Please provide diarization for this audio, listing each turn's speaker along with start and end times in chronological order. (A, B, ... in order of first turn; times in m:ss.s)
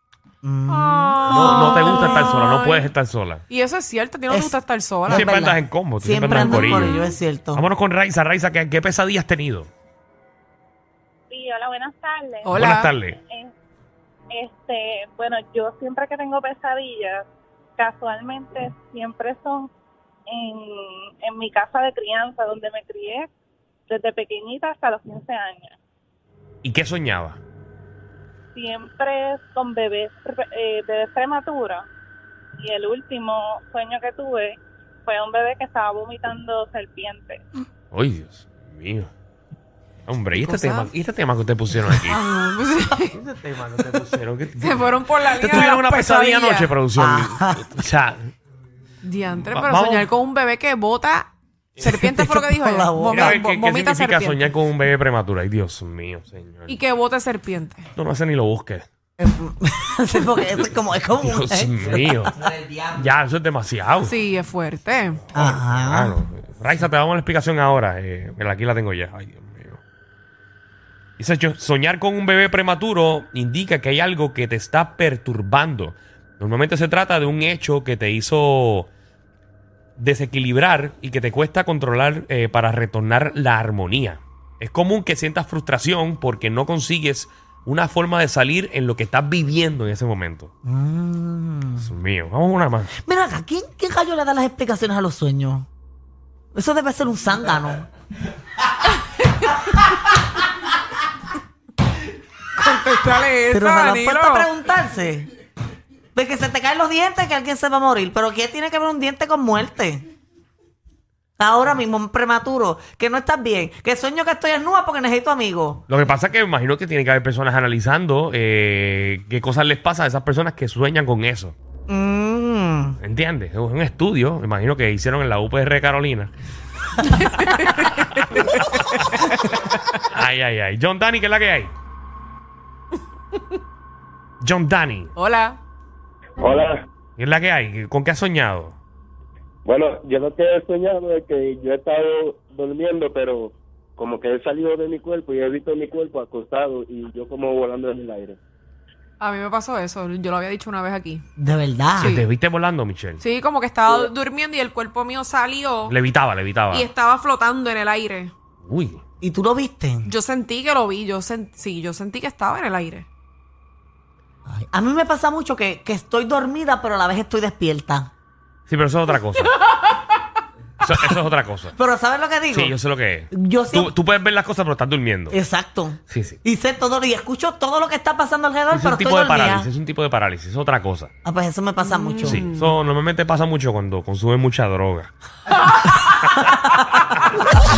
0:00.4-0:02.2 A
0:00.7-0:02.9 B
0:01.2-0:03.4 C
0:03.5-0:05.3 B
0:04.3-0:07.6 A
0:05.1-0:07.0 C
0:06.4-0:07.1 B
0:07.6-0:09.7 C
0:11.3-0:12.6 D
0:12.4-0:12.9 B
0:12.5-0:13.2 C
0:13.2-0:13.5 D
0:14.3-0:17.3 D
0:17.8-0:19.7 D
0:20.3-0:23.3 D
0:23.9-0:25.8 D
0:26.6-0:27.4 C
0:28.5-0:31.8 D
0:32.6-0:37.4 D
0:37.9-0:39.1 C
0:40.1-0:42.2 C
0:40.3-0:40.9 B
0:41.9-0:43.2 B
0:43.1-0:48.3 C
0:44.6-0:46.8 B
0:47.0-0:47.6 A
0:49.0-0:54.4 B
0:49.4-0:50.1 C
0:51.8-0:53.4 A
0:53.1-0:56.8 C
0:56.7-0:57.9 B
0:57.9-0:58.8 C
0:59.2-1:02.8 A
1:01.2-1:02.3 C
1:02.9-1:04.2 C
1:04.0-1:05.2 B
1:05.3-1:06.2 A
1:05.3-1:09.8 C
1:11.2-1:18.9 C
1:20.0-1:30.5 C
1:30.6-1:31.9 A
1:31.8-1:32.9 C
1:33.0-1:35.7 A
1:36.5-1:37.9 A
1:39.2-1:39.8 B
1:42.6-1:44.5 B
1:43.5-1:45.3 A
1:46.1-1:50.0 A
1:51.4-1:55.8 A
1:55.9-2:01.5 C
2:01.9-2:03.0 A
2:03.0-2:06.3 C
2:07.0-2:10.0 B
2:07.5-2:07.9 C
2:10.1-2:11.7 C
2:14.4-2:15.1 C
2:15.2-2:15.6 B
2:16.4-2:16.9 E
2:17.2-2:18.8 C
2:19.6-2:28.4 E
2:29.2-2:31.2 B
2:31.4-2:32.2 A
2:32.0-2:32.2 B
2:32.0-2:33.2 C
2:33.2-2:36.0 B
2:33.9-2:34.1 E
2:35.9-2:36.9 C
2:36.7-2:38.3 B
2:38.6-2:39.0 C
2:39.2-2:40.1 A
2:40.0-2:43.1 B
2:44.5-2:48.1 A
2:48.7-2:49.5 C
2:49.4-2:50.0 B
2:50.8-2:51.8 C
2:51.7-2:52.8 A
2:52.5-2:55.4 C
2:53.3-2:53.9 A
2:55.3-2:59.7 A
2:56.1-2:56.4 C
2:58.7-3:01.1 C
3:01.2-3:02.4 A
3:01.8-3:02.7 B
3:02.2-3:05.1 C
3:06.4-3:06.8 A